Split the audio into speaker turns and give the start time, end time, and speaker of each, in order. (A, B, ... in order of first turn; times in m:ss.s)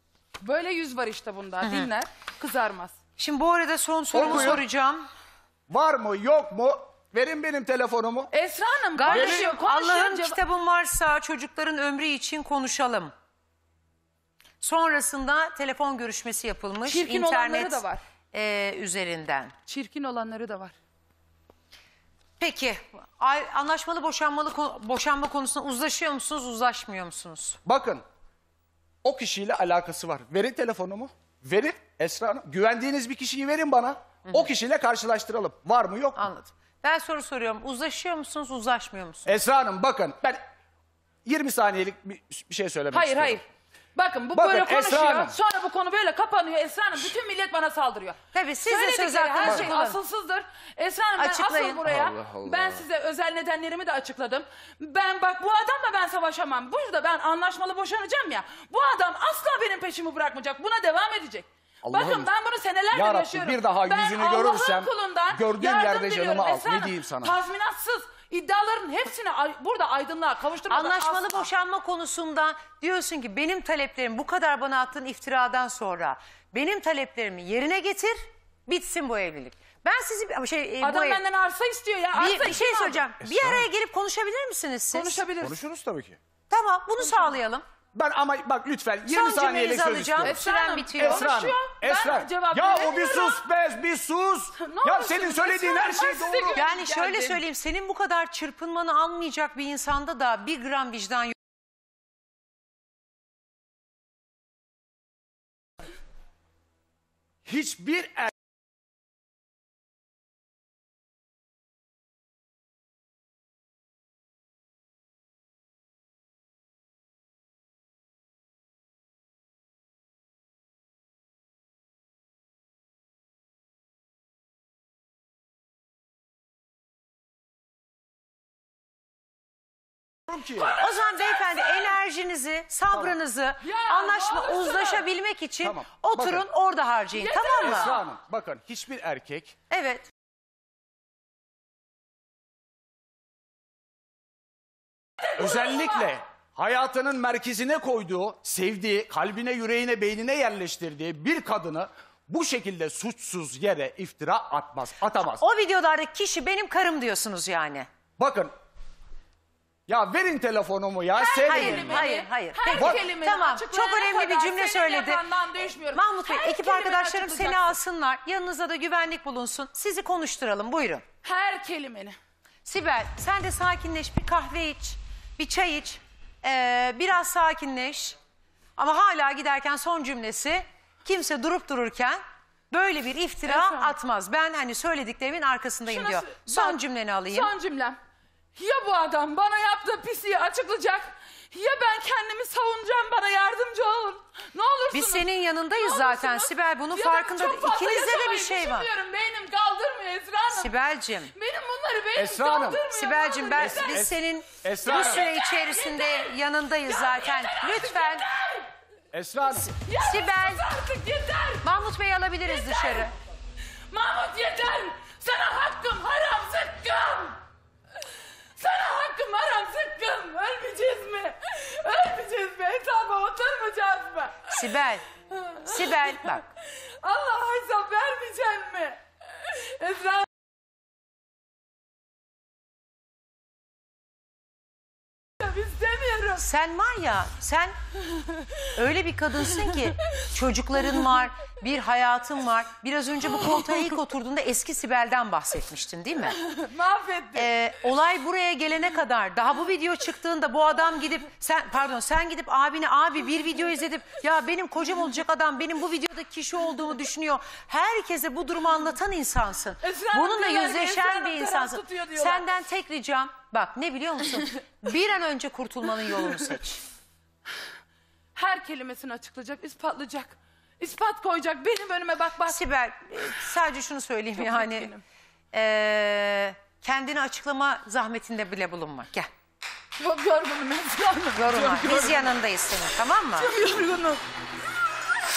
0:00.4-0:03.0 A
0:01.6-0:01.9 B
0:03.2-0:05.1 B
0:04.1-0:04.6 C
0:05.7-0:08.3 C
0:08.3-0:10.4 A
0:09.0-0:13.1 B
0:09.1-0:09.6 C
0:14.6-0:19.5 B
0:16.8-0:18.0 A
0:19.7-0:20.8 A
0:22.4-0:27.6 B
0:27.6-0:28.0 C
0:29.0-0:36.2 C
0:36.2-0:39.3 B
0:39.3-0:40.4 C
0:41.2-0:43.4 C
0:42.9-0:43.4 A
0:44.0-1:11.5 A
0:44.3-0:45.4 C
0:48.3-0:50.0 B
0:49.4-0:49.7 C
0:51.2-0:51.8 B
0:51.8-0:52.8 C
1:01.8-1:02.3 C
1:02.9-1:07.4 C
1:10.7-1:21.2 B
1:20.8-1:23.1 A
1:22.1-1:25.2 B
1:23.2-1:23.7 C
1:24.9-1:25.6 A
1:25.4-1:26.2 C
1:26.5-1:27.6 B
1:28.0-1:30.4 C
1:29.0-1:31.3 B
1:30.2-1:33.4 A
1:31.0-1:36.7 C
1:34.6-1:37.4 A
1:36.6-1:41.4 B
1:47.4-1:48.3 C
2:10.3-2:10.8 C
2:10.6-2:11.9 A
2:10.7-2:18.0 B
2:13.6-2:15.1 A
2:15.6-2:16.5 C
2:17.2-2:18.0 A
2:17.6-2:19.6 C
2:19.7-2:20.1 B
2:25.4-2:35.4 C
2:35.4-2:37.9 B
2:38.2-2:38.5 C
2:39.9-2:42.1 C
2:41.2-2:47.8 A
2:41.4-2:45.2 B
2:42.7-2:43.0 C
2:45.9-2:51.0 B
2:51.2-2:52.2 A
2:52.6-2:58.2 B
2:58.8-3:07.5 B
3:03.4-3:04.0 A
3:05.8-3:08.0 A
3:08.6-3:20.7 A
3:14.9-3:18.9 B
3:20.5-3:21.3 B
3:21.4-3:24.1 A
3:22.2-3:22.8 C
3:22.9-3:28.3 B
3:23.5-3:25.3 C
3:24.8-3:28.7 A
3:29.1-3:29.7 C
3:29.6-3:30.6 B
3:29.8-3:31.7 A
3:31.6-3:33.1 B
3:32.5-3:33.1 A
3:33.9-3:37.4 A
3:38.6-3:46.5 A
3:44.5-3:45.0 B
3:45.6-3:46.4 B
3:47.0-3:50.3 A
3:55.4-3:56.5 A
3:56.4-3:57.7 B
3:58.7-4:06.4 B
4:06.3-4:07.5 A
4:07.4-4:26.8 B
4:19.8-4:22.5 A
4:28.4-4:32.6 A
4:32.5-4:34.9 B
4:34.4-4:35.0 A
4:35.5-4:39.3 B
4:40.0-4:42.3 A
4:41.4-4:43.5 B
4:43.4-4:44.2 A